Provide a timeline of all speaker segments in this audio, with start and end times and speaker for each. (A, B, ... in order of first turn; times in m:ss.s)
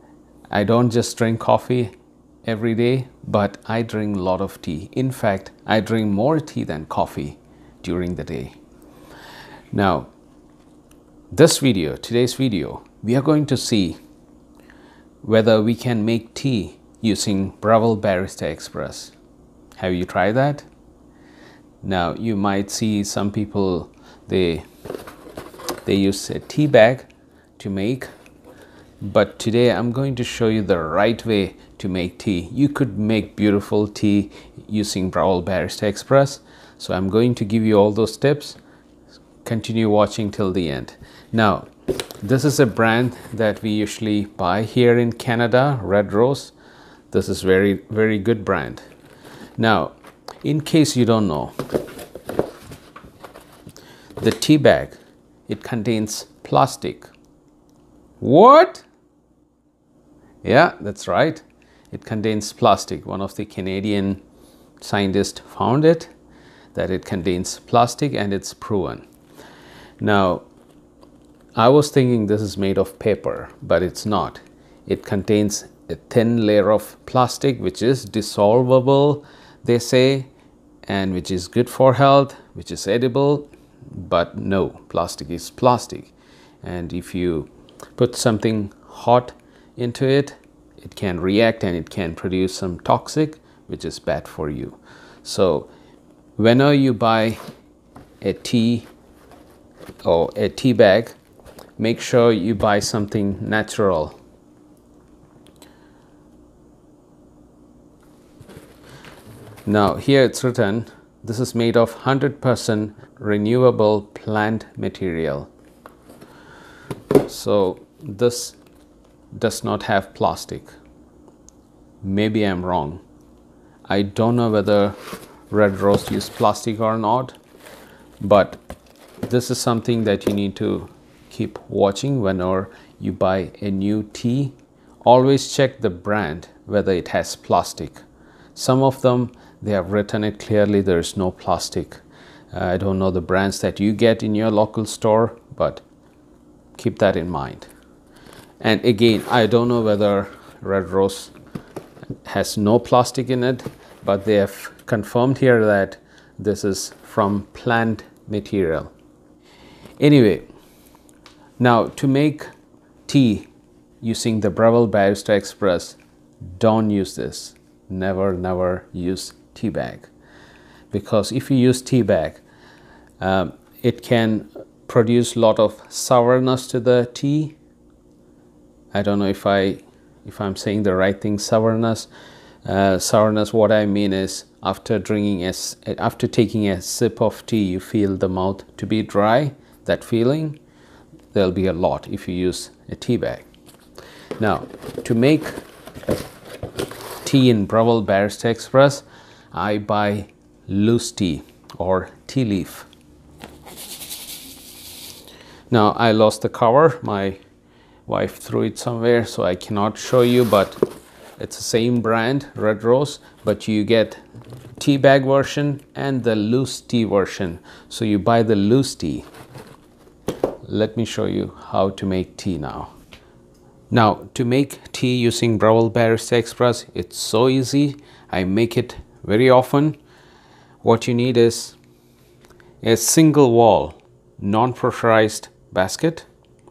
0:00.5-0:01.9 A
0:02.4-0:08.6 A
0:09.7-0:10.1 A
0:11.3-0:14.0 A
0:15.2-0:19.1 A
0:19.8-0:20.7 A
0:21.8-0:24.6 A
0:25.8-0:28.1 A
0:29.0-0:38.6 A
0:39.4-0:41.7 A
0:42.2-0:46.5 A
0:47.1-0:48.8 A
0:49.6-0:51.6 A
0:54.2-0:55.0 A
0:55.5-0:57.1 A
0:58.2-0:58.8 A
1:00.4-1:04.2 A
1:04.8-1:06.1 A
1:06.7-1:09.0 A
1:10.0-1:10.4 A
1:11.6-1:20.3 A
1:20.9-1:35.7 A
1:36.4-1:37.4 A
1:38.2-1:38.9 A
1:40.0-1:41.2 A
1:41.8-1:44.2 A
1:49.6-1:55.5 A
1:57.2-1:58.6 A
1:59.3-2:00.7 A
2:02.0-2:03.0 A
2:03.9-2:05.0 A
2:05.5-2:07.4 A
2:08.2-2:08.6 A
2:09.2-2:18.0 A
2:18.5-2:25.8 A
2:26.8-2:27.7 A
2:28.6-2:31.3 A
2:32.2-2:38.9 A
2:40.0-2:40.5 A
2:41.6-2:42.5 A
2:43.0-2:43.5 A
2:44.0-2:50.1 A
2:50.9-2:52.4 A
2:53.2-2:57.6 A
2:58.9-3:02.1 A
3:02.6-3:10.6 A
3:11.3-3:13.4 A
3:14.4-3:15.6 A
3:17.2-3:22.9 A
3:25.7-3:27.4 A
3:28.1-3:30.8 A
3:31.4-3:34.2 A
3:34.8-3:39.3 A
3:40.6-3:42.9 A
3:43.9-3:50.0 A
3:50.8-3:51.8 A
3:52.8-3:56.3 A